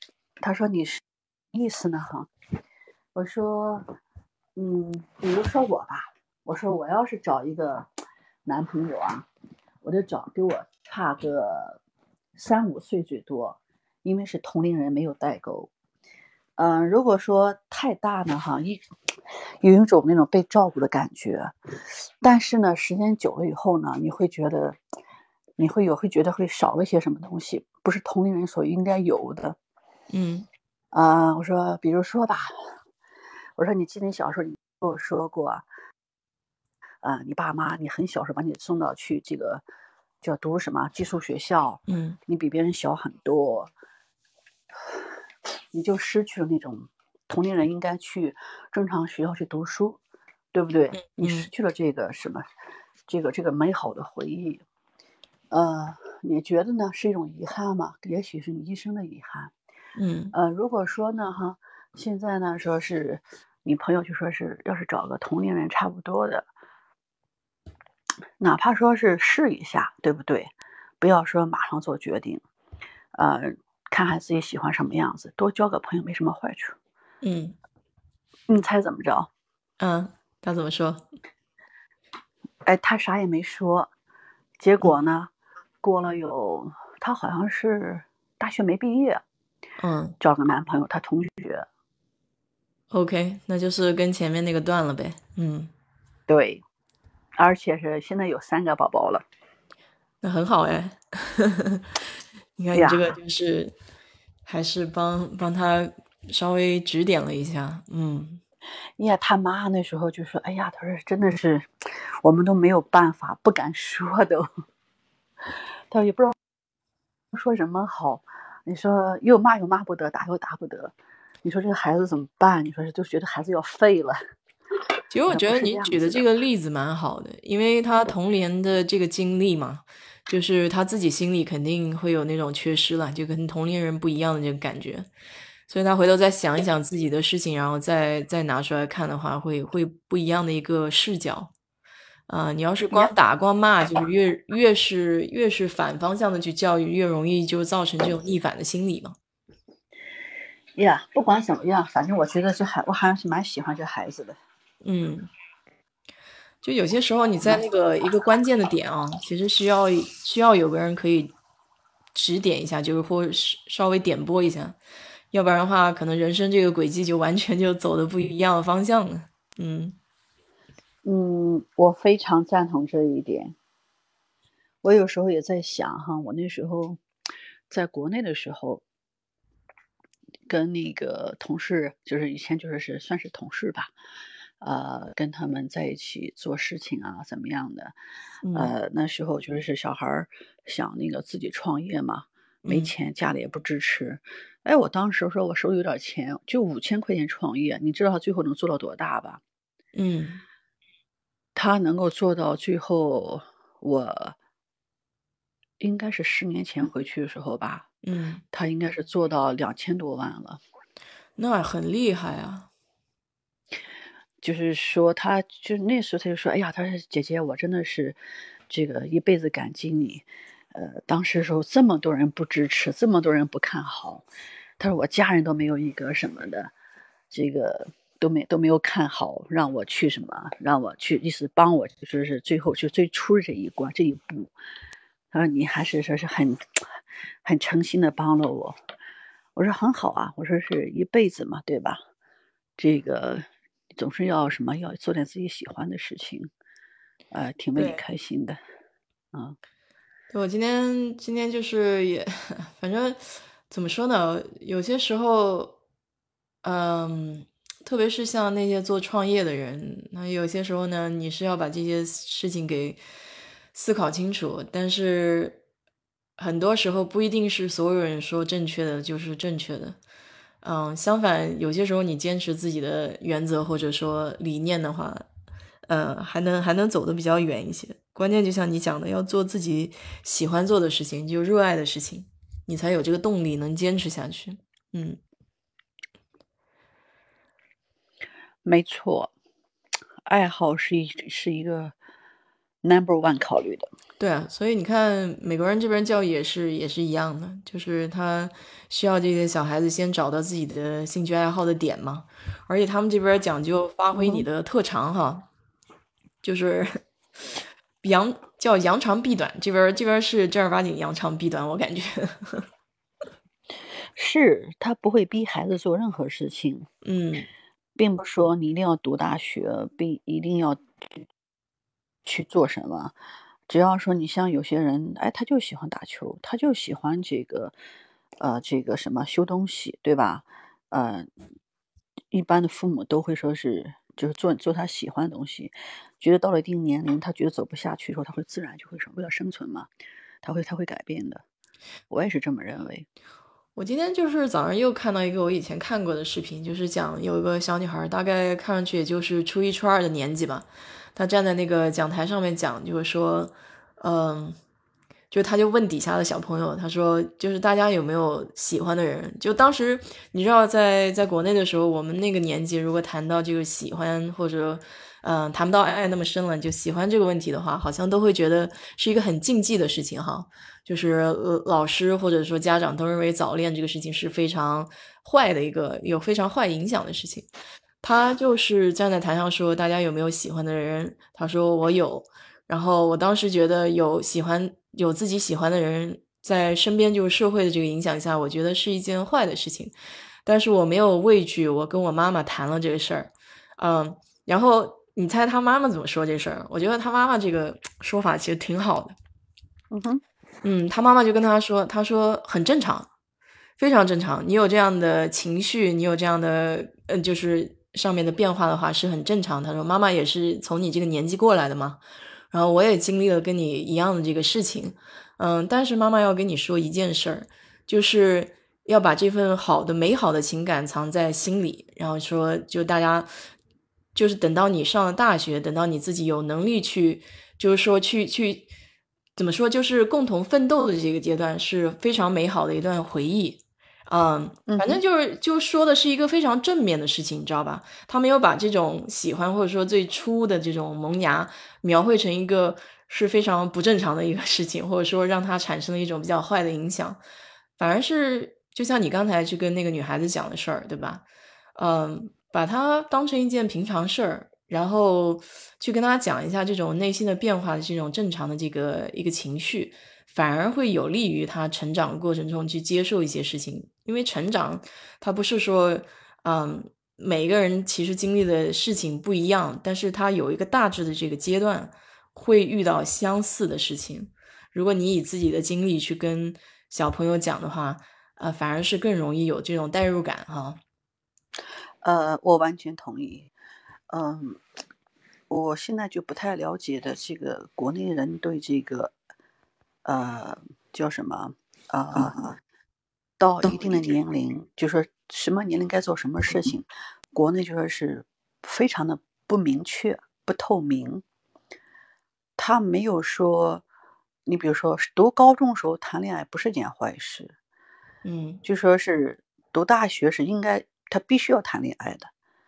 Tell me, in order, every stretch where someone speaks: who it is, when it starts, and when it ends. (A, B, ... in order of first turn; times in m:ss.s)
0:00.4-0:02.3 A
0:03.2-0:03.8 A
0:04.6-0:07.9 A
0:08.5-0:09.3 A
0:09.8-0:11.8 A
0:12.4-0:15.7 A
0:16.6-0:18.8 A
0:19.6-0:21.5 A
0:22.2-0:24.8 A
0:25.6-0:29.6 A
0:30.1-0:30.5 B
0:30.9-0:32.5 A
0:33.6-0:35.6 A
0:37.0-0:39.6 A
0:40.2-0:43.7 A
0:41.9-0:42.2 B
0:45.7-0:50.0 A
0:50.5-0:52.4 A
0:51.0-0:51.5 B
0:53.1-0:54.6 A
0:55.5-0:59.5 A
1:00.0-1:00.3 B
1:00.3-1:06.5 A
1:08.4-1:12.4 A
1:13.1-1:16.8 A
1:17.2-1:17.6 B
1:18.5-1:19.3 A
1:19.8-1:21.1 B
1:22.7-1:23.9 A
1:24.6-1:29.2 A
1:29.8-1:30.2 B
1:30.2-1:31.7 A
1:32.9-1:35.7 B
1:36.3-1:36.6 A
1:37.4-1:39.2 A
1:40.2-1:42.0 B
1:42.6-1:43.7 B
1:42.7-1:43.1 A
1:44.5-1:48.4 B
1:49.0-1:51.7 A
1:52.2-1:54.5 A
1:55.9-1:56.4 A
1:57.3-2:04.2 A
2:05.1-2:15.1 B
2:05.3-2:06.2 A
2:15.7-2:21.5 B
2:22.3-2:29.2 B
2:30.8-2:34.4 A
2:34.8-2:35.3 B
2:36.6-2:41.4 B
2:42.1-2:44.8 B
2:45.3-2:50.0 B
2:51.0-2:53.6 A
2:54.8-2:57.0 A
2:57.7-2:58.8 A
3:00.5-3:03.9 A
3:04.6-3:07.9 A
3:08.4-3:08.7 B
3:08.5-3:19.4 A
3:12.6-3:12.9 B
3:19.9-3:20.4 B
3:21.6-3:24.4 A
3:25.8-3:27.9 A
3:28.0-3:28.4 B
3:28.5-3:30.6 A
3:31.4-3:32.7 B
3:34.4-3:38.2 A
3:38.7-3:44.2 A
3:44.8-3:46.7 A
3:47.3-3:54.5 A
3:55.3-3:56.8 A
3:57.4-3:58.8 A
3:59.6-4:02.0 A
4:02.8-4:03.4 A
4:04.0-4:06.5 A
4:07.3-4:08.6 A
4:07.8-4:08.0 B
4:10.3-4:15.8 B
4:16.6-4:23.0 B
4:23.7-4:25.6 B
4:26.4-4:30.0 B
4:30.6-4:35.3 B
4:35.9-4:45.2 B
4:48.6-4:49.3 A
4:50.3-4:51.9 A
4:52.8-4:53.9 A
4:54.2-5:05.5 B
5:04.1-5:04.5 A
5:06.4-5:07.0 B
5:08.0-5:12.7 B
5:14.2-5:16.9 A
5:17.0-5:17.5 B
5:18.0-5:21.2 A
5:22.2-5:23.1 A
5:23.7-5:27.8 A
5:28.4-5:31.3 A
5:32.3-5:39.9 A
5:40.4-5:41.4 A
5:42.1-5:43.1 A
5:43.8-5:54.6 B
5:55.3-6:17.5 B
6:18.0-6:29.9 B
6:30.4-6:39.2 B
6:39.9-6:40.2 A
6:40.6-6:43.1 B
6:43.8-7:03.3 B
7:04.2-7:08.7 B
7:09.4-7:27.2 B
7:14.7-7:15.0 A
7:27.8-8:00.8 B
8:02.0-8:03.5 A
8:04.1-8:04.6 A
8:05.5-8:09.1 A
8:10.0-8:12.6 A
8:13.4-8:21.2 A
8:22.6-8:23.8 A
8:24.5-8:27.6 A
8:28.2-8:28.6 B
8:28.6-8:32.3 A